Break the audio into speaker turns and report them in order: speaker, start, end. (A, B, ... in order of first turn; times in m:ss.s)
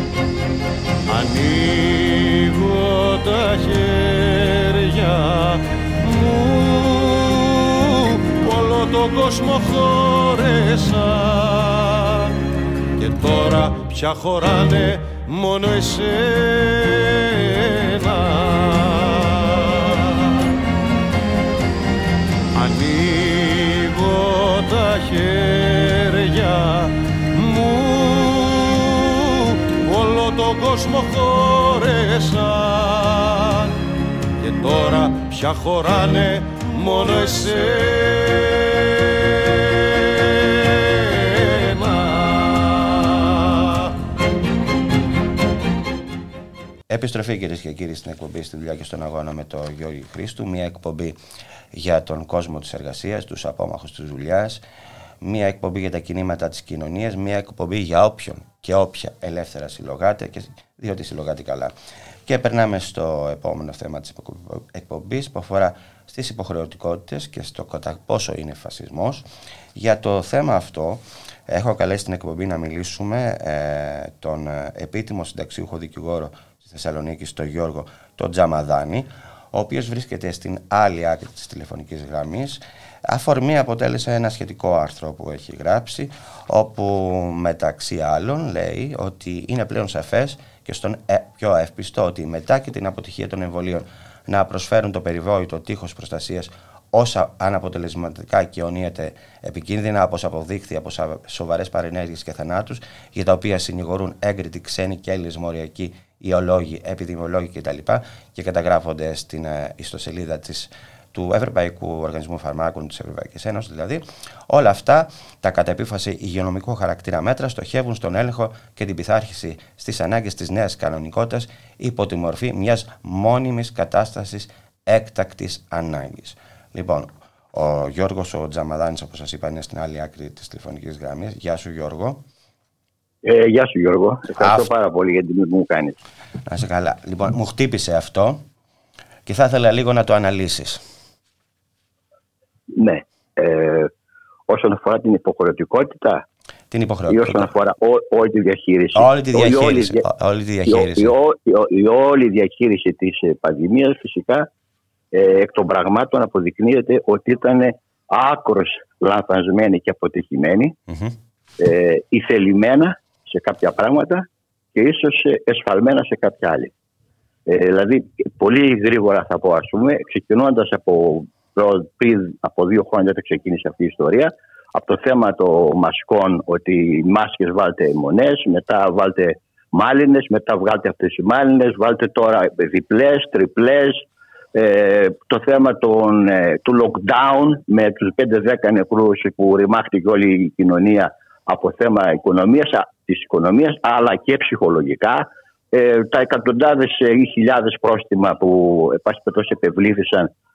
0:01.1-0:07.2 A
0:08.4-0:11.9 A
0:13.0-0:17.0 A
0:22.6-0:28.7 A
0:29.8-0:33.6 A
0:34.4-0:38.4 A
0:42.2-0:42.5 A
0:46.9-0:51.2 B
0:51.7-0:54.6 B
0:55.2-1:01.7 B
1:02.2-1:09.2 B
1:09.8-2:12.2 B
2:13.2-2:16.0 C
2:14.4-2:14.7 B
2:16.4-2:18.4 B
2:19.2-2:20.8 B
2:22.7-2:23.9 C
2:24.5-2:26.2 C
2:26.7-2:27.5 B
2:27.1-2:30.0 C
2:28.9-2:31.1 B
2:30.7-2:34.5 C
2:35.1-2:40.8 C
2:40.9-2:41.1 B
2:41.6-2:46.7 C
2:47.5-3:04.0 C
3:04.5-3:20.3 C